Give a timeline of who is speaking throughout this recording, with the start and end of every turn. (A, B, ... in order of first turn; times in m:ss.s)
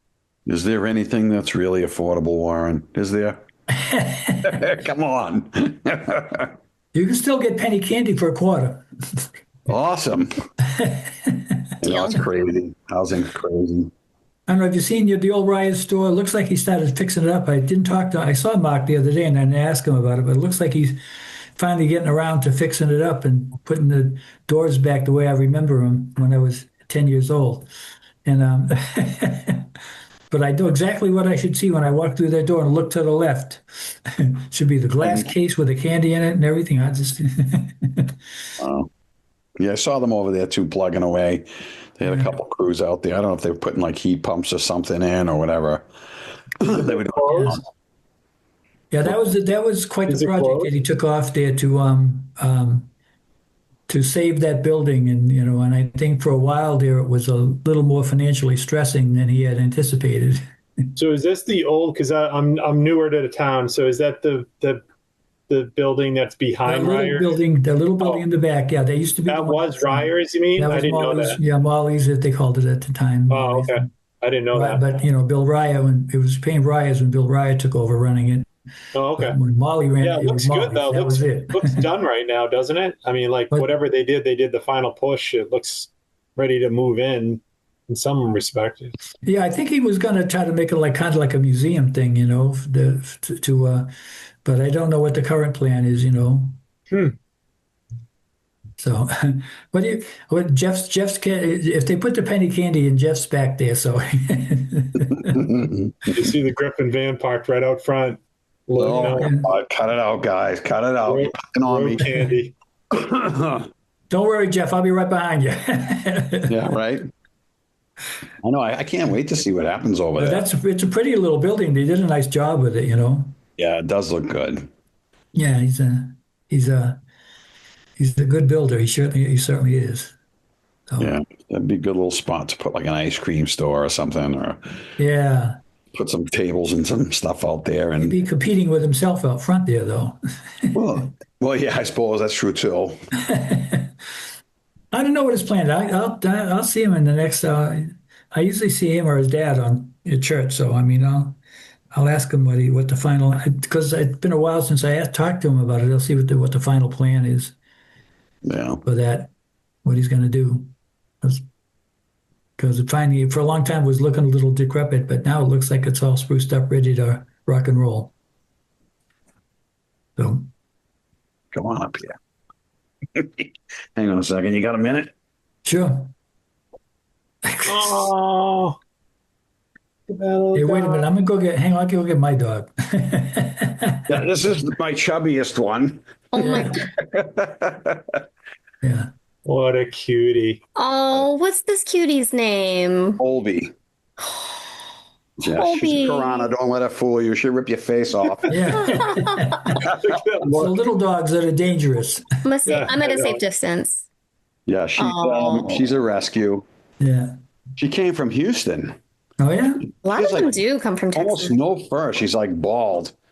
0:00.5-0:03.4 A
0:03.8-0:04.5 B
0:04.4-0:06.5 A
0:06.9-0:08.9 B
0:09.7-0:10.4 A
0:10.8-0:11.5 B
0:11.8-0:13.9 A
0:11.8-0:12.2 C
0:14.5-0:21.0 B
0:21.6-0:27.7 B
0:28.2-0:29.7 B
0:30.3-0:38.1 B
0:35.0-0:35.3 A
0:38.6-0:38.9 A
0:39.6-0:41.5 A
0:42.0-0:45.8 A
0:42.1-0:42.4 B
0:46.6-0:47.6 A
0:46.7-0:47.6 D
0:47.3-0:47.6 B
0:48.9-0:52.9 B
0:50.1-0:50.7 D
0:53.9-1:00.4 B
1:01.0-1:04.8 D
1:05.5-1:07.4 D
1:06.7-1:13.9 B
1:09.3-1:11.4 D
1:13.3-1:14.9 D
1:14.5-1:18.5 B
1:18.9-1:19.4 D
1:19.2-1:21.8 B
1:20.0-1:29.0 D
1:29.2-1:33.9 B
1:34.4-1:36.6 B
1:38.8-1:45.4 B
1:45.3-1:46.0 A
1:46.1-1:49.3 D
1:48.8-1:52.1 A
1:49.1-1:49.5 B
1:51.1-1:52.5 D
1:52.9-1:53.7 A
1:54.1-1:56.5 B
1:56.5-1:57.0 A
1:58.4-2:00.5 A
2:00.2-2:03.4 B
2:03.6-2:04.7 A
2:05.3-2:07.0 B
2:08.0-2:10.2 B
2:10.9-2:11.2 B
2:11.0-2:14.6 A
2:15.0-2:15.6 B
2:16.0-2:18.2 A
2:18.0-2:20.8 B
2:20.8-2:23.0 A
2:23.2-2:23.9 B
2:24.9-2:31.4 B
2:31.9-2:37.6 B
2:38.5-2:38.8 A
2:38.8-2:39.3 B
2:39.8-2:41.4 B
2:42.6-2:48.1 B
2:50.2-2:50.5 B
2:51.5-2:52.1 A
2:53.2-2:55.1 A
2:55.6-2:56.1 B
2:57.4-2:58.1 B
2:57.7-2:58.8 D
3:00.1-3:01.1 D
3:00.5-3:04.0 B
3:04.1-3:06.0 A
3:06.3-3:06.8 C
3:06.4-3:06.8 B
3:06.6-3:08.2 A
3:08.8-3:09.1 B
3:09.5-3:10.6 D
3:10.8-3:13.2 C
3:13.2-3:13.7 A
3:14.2-3:14.6 C
3:15.4-3:19.0 A
3:15.5-3:16.5 C
3:18.5-3:19.8 B
3:19.8-3:20.8 D
3:20.5-3:22.8 B
3:22.4-3:24.1 C
3:22.7-3:23.4 D
3:24.7-3:26.6 A
3:25.0-3:25.8 C
3:27.0-3:27.4 B
3:27.8-3:29.0 A
3:29.4-3:29.9 B
3:30.0-3:31.6 C
3:30.1-3:30.5 A
3:31.2-3:33.1 A